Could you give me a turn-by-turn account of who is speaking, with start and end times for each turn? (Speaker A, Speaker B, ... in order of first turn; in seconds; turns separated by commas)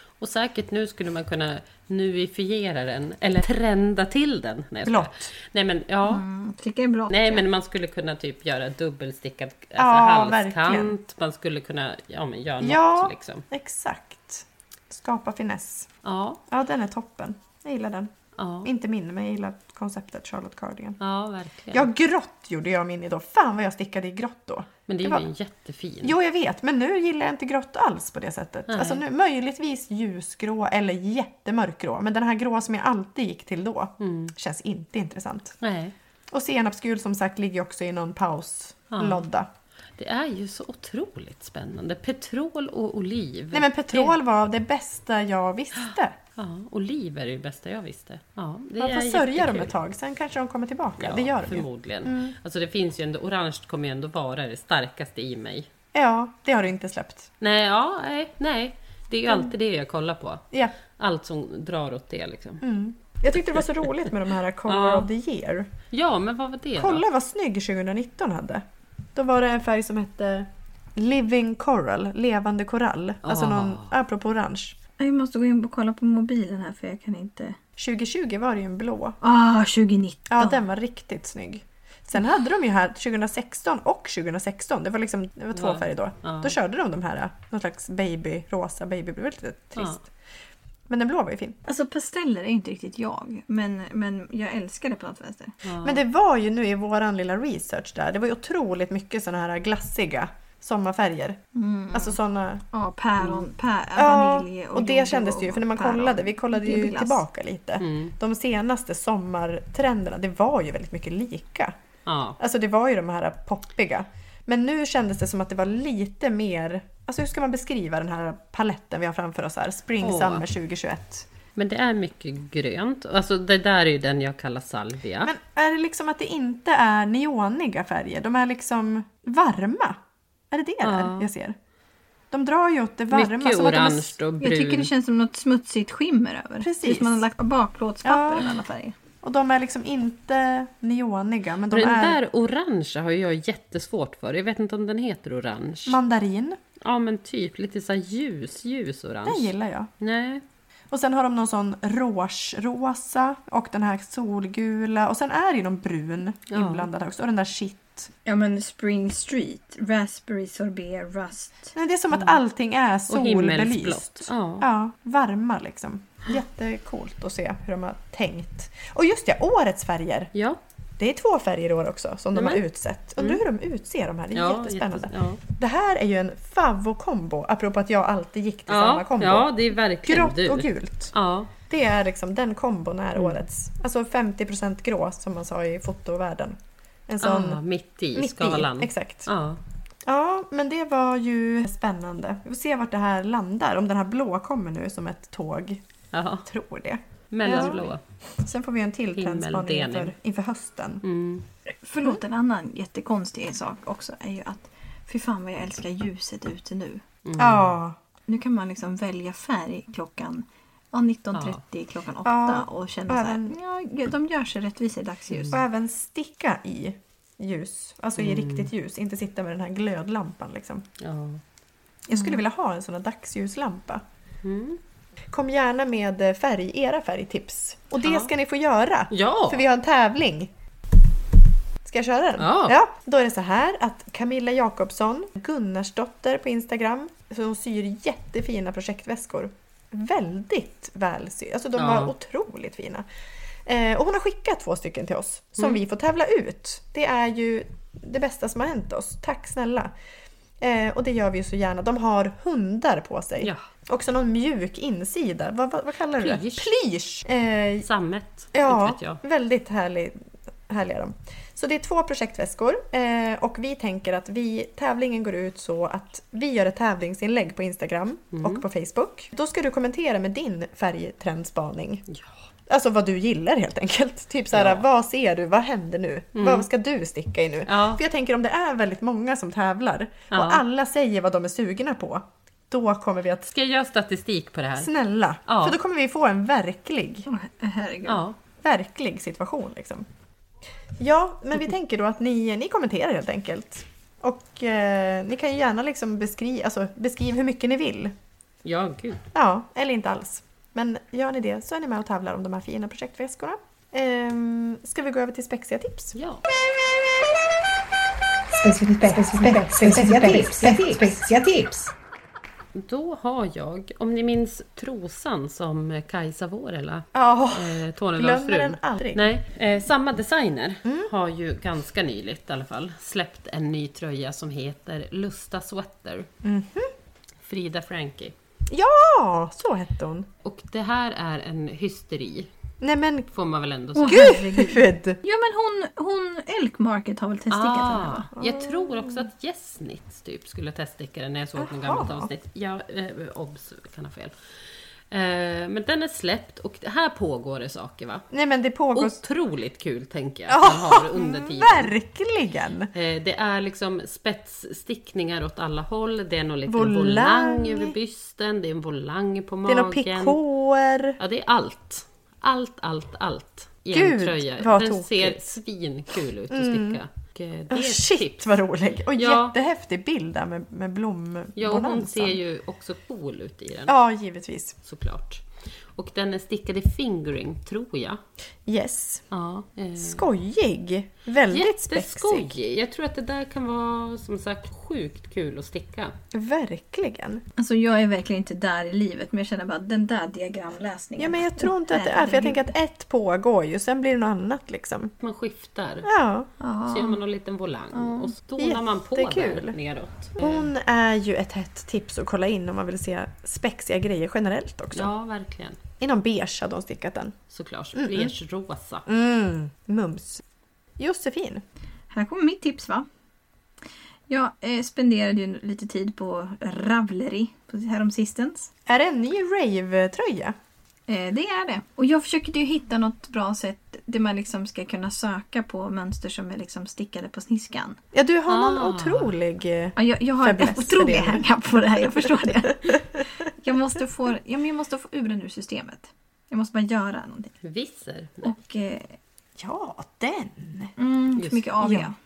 Speaker A: 0.2-6.2, Speaker B: 4.8-5.3, Speaker C: 6.1-7.5, Speaker A: 7.1-13.4, Speaker B: 9.8-10.9, Speaker B: 12.6-15.9, Speaker A: 16.0-16.4, Speaker B: 16.5-18.1, Speaker A: 18.4-18.7, Speaker B: 18.6-21.0, Speaker A: 21.0-21.9, Speaker B: 21.7-25.3, Speaker A: 24.9-26.1, Speaker B: 26.0-35.6, Speaker A: 28.7-29.0, Speaker A: 34.0-34.3, Speaker A: 35.6-35.9, Speaker B: 36.3-39.5, Speaker A: 38.9-39.2, Speaker A: 40.0-44.2, Speaker B: 43.5-46.2, Speaker A: 45.8-49.7, Speaker B: 48.8-52.4, Speaker A: 51.0-55.7, Speaker B: 55.9-57.3, Speaker A: 57.4-60.5, Speaker A: 61.0-62.6, Speaker B: 62.6-65.7, Speaker A: 64.7-65.1, Speaker A: 65.9-67.0, Speaker B: 66.8-68.6, Speaker B: 69.1-74.8, Speaker A: 73.2-73.9, Speaker C: 75.0-77.6, Speaker B: 77.8-79.2, Speaker C: 79.2-80.6, Speaker B: 80.3-90.1, Speaker A: 85.5-86.5, Speaker B: 90.9-91.6, Speaker C: 91.7-95.6, Speaker A: 95.6-96.0, Speaker B: 95.8-101.4, Speaker C: 101.5-102.2, Speaker B: 101.9-102.6, Speaker C: 102.7-107.2, Speaker B: 104.0-111.7, Speaker A: 107.8-108.1, Speaker A: 112.1-112.4, Speaker B: 112.4-121.3, Speaker A: 120.0-120.5, Speaker A: 121.6-125.3, Speaker B: 125.2-130.0, Speaker B: 130.5-131.6, Speaker A: 130.8-131.3, Speaker B: 132.3-134.2, Speaker A: 133.1-134.9, Speaker C: 134.4-138.9, Speaker B: 136.6-137.2, Speaker B: 138.0-138.5, Speaker B: 139.2-142.2, Speaker A: 141.7-146.0, Speaker B: 145.9-146.6, Speaker A: 146.8-150.4, Speaker B: 149.3-149.9, Speaker B: 150.9-158.1, Speaker A: 156.5-156.9, Speaker C: 158.2-161.8, Speaker B: 161.8-170.3, Speaker A: 162.1-162.4, Speaker A: 163.1-164.7, Speaker A: 170.3-170.6, Speaker B: 171.0-179.5, Speaker A: 172.3-172.6, Speaker A: 174.3-175.4, Speaker A: 178.7-181.5, Speaker B: 180.0-181.1, Speaker B: 181.7-187.6, Speaker A: 187.2-189.6, Speaker B: 188.1-189.3, Speaker B: 190.1-195.8, Speaker A: 196.1-196.5, Speaker B: 196.4-201.0, Speaker A: 197.3-198.0, Speaker A: 199.2-200.1, Speaker A: 201.0-201.4, Speaker C: 201.8-207.0, Speaker A: 207.2-207.8, Speaker B: 207.4-208.0, Speaker C: 208.3-215.6, Speaker A: 211.3-211.6, Speaker B: 212.2-213.6, Speaker A: 215.3-215.6, Speaker B: 215.5-220.9, Speaker A: 218.2-218.7, Speaker A: 221.0-221.4, Speaker B: 222.1-224.0, Speaker A: 224.4-224.8, Speaker B: 225.3-230.5, Speaker A: 228.0-228.3, Speaker A: 229.1-229.7, Speaker B: 231.8-243.1, Speaker A: 232.4-232.8, Speaker A: 241.8-242.1, Speaker B: 243.7-249.9, Speaker B: 250.6-257.9, Speaker A: 256.2-256.7, Speaker A: 257.8-259.2, Speaker B: 258.5-260.1, Speaker B: 260.7-272.1, Speaker A: 268.3-268.6, Speaker B: 272.7-283.5, Speaker A: 274.5-274.9, Speaker A: 276.4-276.7, Speaker A: 277.7-278.0, Speaker A: 280.3-280.6, Speaker A: 283.5-284.9, Speaker B: 284.8-287.3, Speaker A: 285.4-285.8, Speaker C: 287.3-288.3, Speaker A: 288.1-288.4, Speaker B: 288.6-290.1, Speaker B: 291.0-298.1, Speaker A: 298.6-299.3, Speaker B: 299.3-306.2, Speaker A: 306.1-306.5, Speaker C: 308.6-311.8, Speaker B: 309.0-311.4, Speaker A: 312.8-326.3, Speaker B: 317.1-319.3, Speaker B: 320.9-321.1, Speaker B: 326.4-326.9, Speaker A: 327.4-328.4, Speaker B: 328.7-330.3, Speaker A: 330.4-332.5, Speaker B: 332.8-333.3, Speaker A: 333.3-334.4, Speaker C: 333.9-338.3, Speaker B: 334.0-335.2, Speaker A: 337.5-344.3, Speaker B: 338.4-339.3, Speaker B: 341.6-342.3, Speaker A: 345.1-348.2, Speaker B: 348.3-349.2, Speaker A: 348.9-351.9, Speaker B: 350.5-352.9, Speaker A: 352.9-360.4, Speaker B: 356.7-357.9, Speaker B: 359.7-361.2, Speaker A: 361.2-368.5, Speaker B: 363.9-365.5, Speaker B: 366.5-367.0, Speaker B: 367.7-372.4, Speaker A: 369.1-369.6, Speaker A: 371.6-373.9, Speaker B: 373.9-374.8, Speaker A: 374.9-378.2, Speaker B: 378.7-379.3, Speaker A: 379.3-380.3, Speaker B: 380.0-382.6, Speaker A: 381.5-386.1, Speaker B: 386.3-387.4, Speaker C: 387.6-392.6, Speaker B: 391.2-395.1, Speaker A: 395.2-396.1, Speaker B: 396.1-396.5, Speaker C: 396.6-397.2, Speaker A: 396.9-400.7, Speaker C: 397.9-398.3, Speaker B: 398.6-399.8, Speaker B: 400.4-405.1, Speaker A: 404.9-405.8, Speaker B: 406.0-407.4, Speaker A: 407.5-409.1, Speaker B: 407.9-408.3, Speaker B: 409.1-410.4, Speaker B: 411.0-411.6, Speaker C: 412.1-413.1, Speaker C: 414.3-418.7, Speaker B: 418.9-420.6, Speaker C: 421.1-428.0, Speaker B: 428.1-431.4, Speaker A: 428.5-429.4, Speaker C: 429.9-437.6, Speaker A: 437.6-438.5, Speaker C: 438.4-439.2, Speaker B: 439.6-440.9, Speaker C: 441.0-442.1, Speaker A: 441.4-441.9